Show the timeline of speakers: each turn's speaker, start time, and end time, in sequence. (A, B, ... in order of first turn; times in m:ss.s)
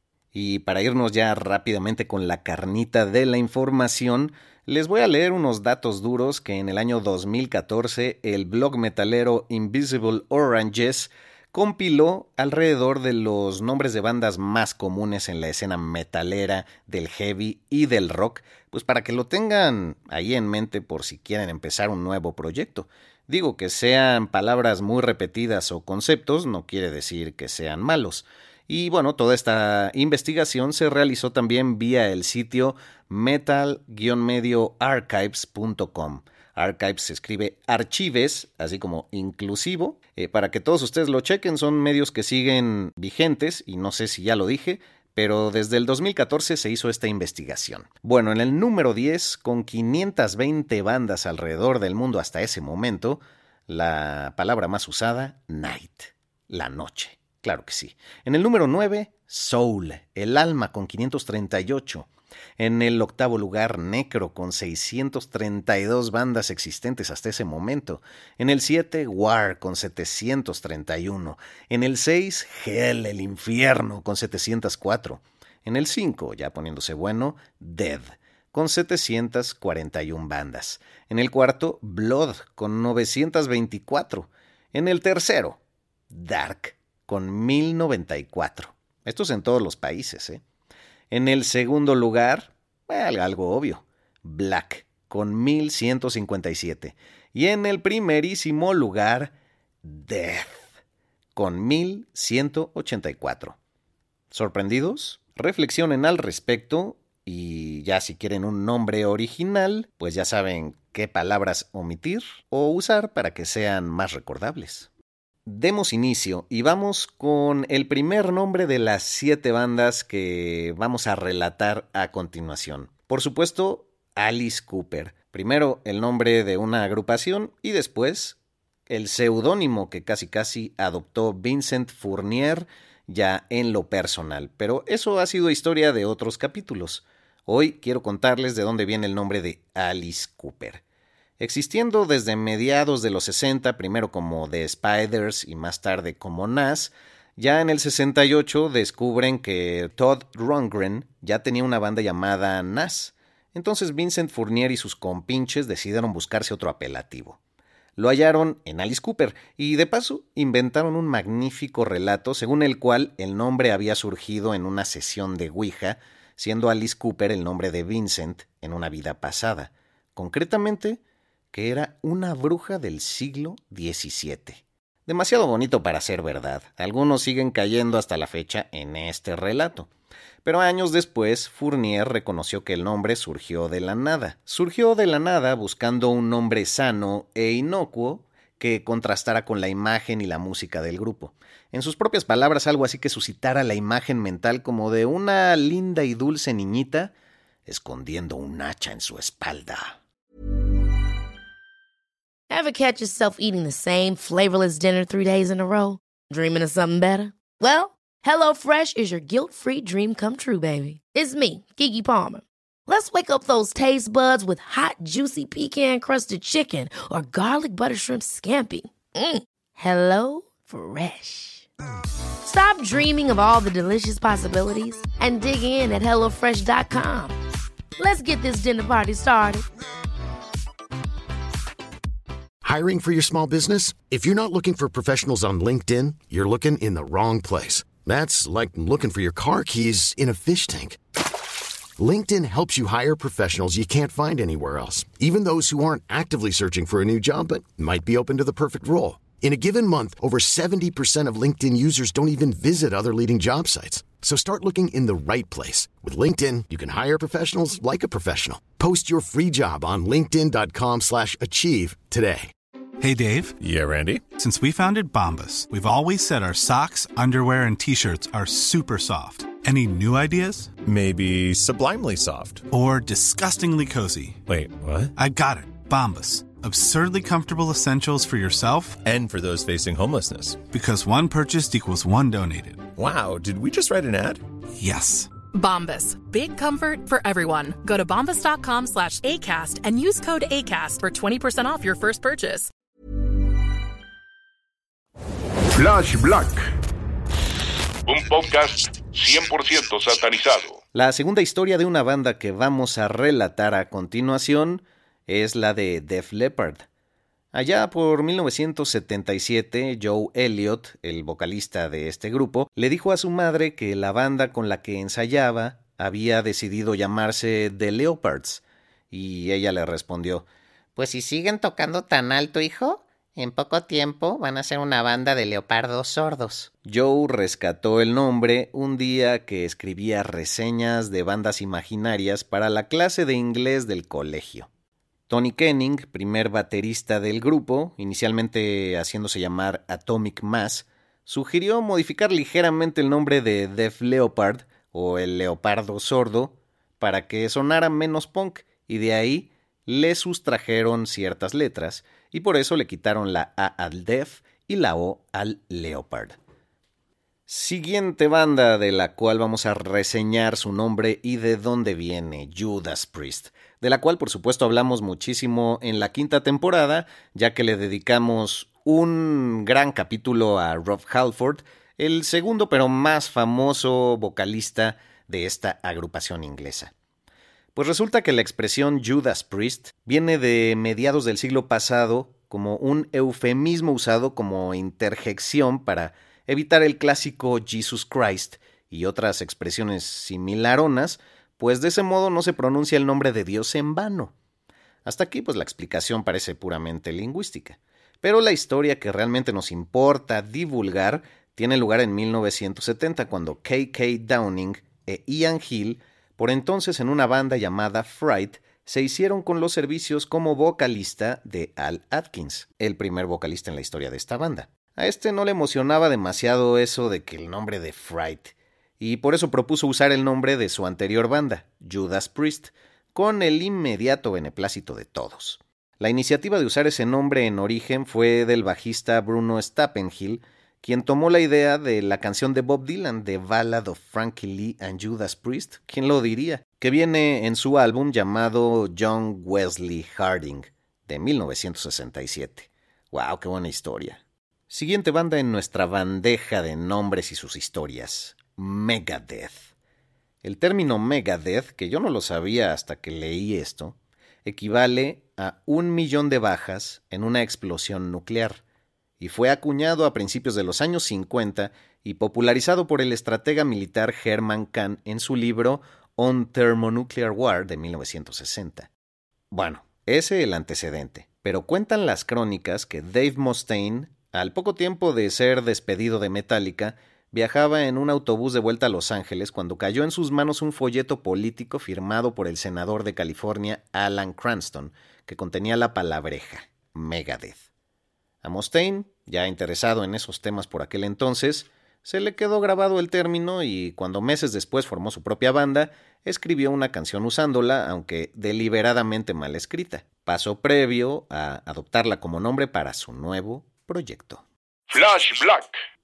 0:00.3-1:25.6 A
1:26.1-1:30.4 A
1:31.1-1:40.6 A
1:41.4-1:43.6 A
1:44.3-1:54.9 A
1:55.5-2:20.8 A
2:21.4-2:37.4 A
2:38.0-2:51.0 A
2:51.5-2:59.9 A
3:00.4-3:17.1 A
3:17.7-3:20.0 A
3:22.5-3:41.7 B
3:42.4-3:47.3 B
3:48.0-3:49.6 B
3:52.6-4:01.0 C
4:02.0-4:22.5 C
4:23.0-4:23.6 D
4:23.6-4:24.3 E
4:24.3-4:30.7 D
4:30.8-4:32.7 E
4:32.7-4:34.4 D
4:34.5-4:35.1 E
4:35.2-4:39.0 D
4:39.0-4:40.7 E
4:40.7-4:42.8 D
4:43.0-4:44.4 E
4:44.8-4:45.3 D
4:45.5-4:52.7 F
4:55.7-4:56.6 G
4:58.1-5:00.8 G
5:00.9-5:06.8 A
5:07.5-5:20.5 A
5:21.0-5:26.6 H
5:26.8-5:34.7 A
5:35.3-5:56.4 A
5:57.5-6:16.9 A
6:17.7-6:34.3 A
6:35.0-7:29.7 A
7:30.4-7:38.6 A
7:39.2-7:48.9 A
7:49.5-8:07.6 A
8:08.4-8:24.4 A
8:24.9-8:25.7 G